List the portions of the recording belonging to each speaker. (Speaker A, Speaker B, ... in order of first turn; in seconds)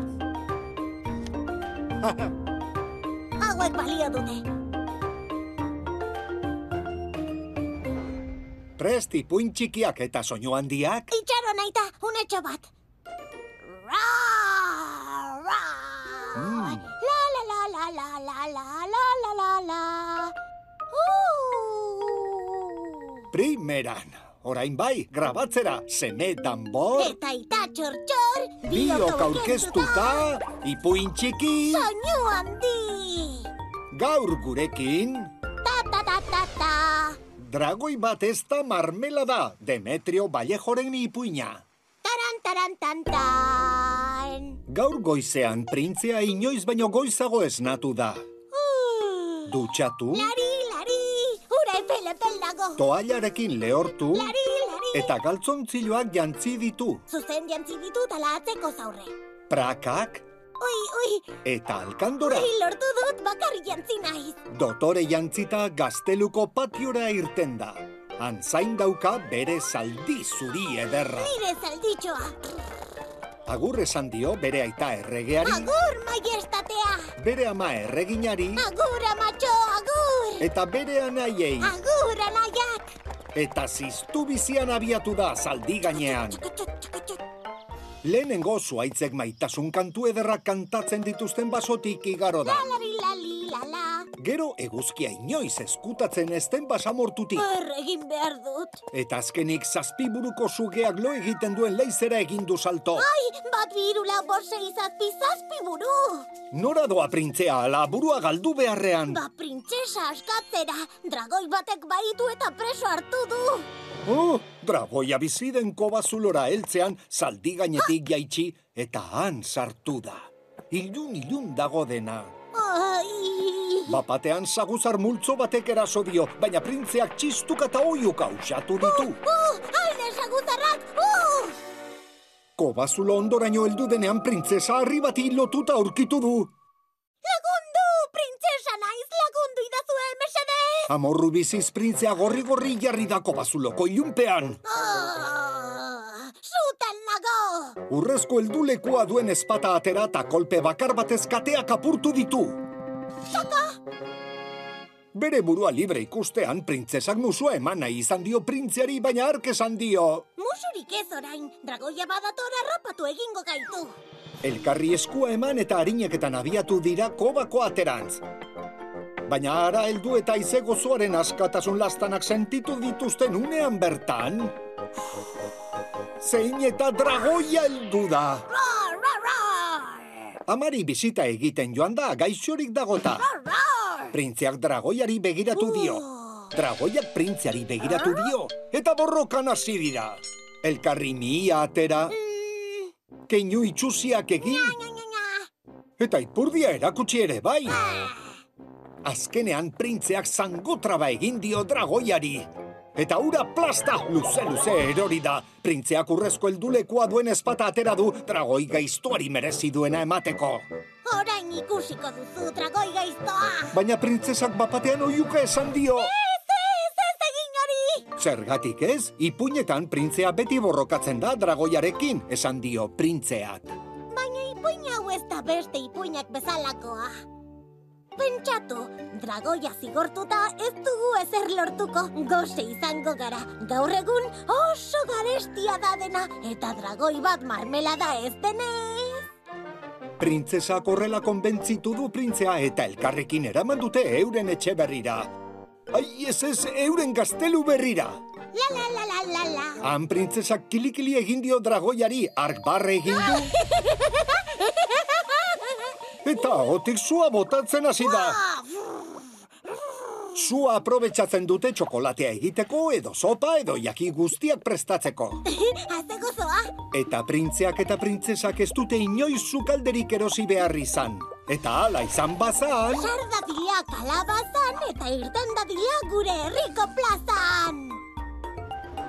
Speaker A: 3.4-4.4, 11.1-12.7, 13.6-20.3, 20.9-23.2, 27.0-30.3, 31.6-33.5, 35.6-37.2, 42.0-44.6, 48.5-52.8, 54.1-55.1, 57.1-59.1, 60.6-61.4, 62.2-64.4, 71.1-72.7, 75.4-77.1, 78.5-80.5, 81.6-82.8, 85.9-87.2, 92.4-94.1, 97.3-98.8, 103.0-106.3, 109.0-113.7, 122.5-124.0, 128.8-131.6, 137.2-140.9, 144.6-147.8, 153.3-153.8, 160.4-164.0, 178.5-180.3, 183.1-184.1, 185.5-186.5, 187.8-188.3, 192.1-192.9, 194.4-195.5, 197.7-198.4, 211.0-213.8, 215.9-218.1, 224.1-227.2, 228.2-239.3, 248.5-249.8, 253.2-255.8, 258.0-259.3, 265.4-266.7, 272.9-278.0
Speaker B: 8.8-11.1, 16.3-16.8, 23.3-27.1, 28.6-31.9, 33.9-35.3, 37.4-41.6, 44.7-48.2, 49.5-50.3, 52.8-54.4, 54.9-57.0, 59.5-60.2, 61.4-62.5, 64.5-71.3, 73.5-75.7, 77.2-78.7, 80.4-81.8, 83.3-86.4, 88.0-92.7, 94.2-97.5, 98.9-103.1, 106.5-109.2, 114.0-122.3, 123.9-129.2, 132.6-136.5, 140.9-144.6, 147.9-152.6, 155.1-160.2, 164.4-168.2, 169.2-174.6, 176.2-178.5, 180.5-183.3, 184.1-192.2, 193.3-194.8, 196.0-197.8, 199.0-210.7, 213.7-216.1, 218.2-223.7, 240.2-245.3, 245.9-248.2, 249.8-253.6, 256.2-258.4, 260.3-265.4, 266.9-273.1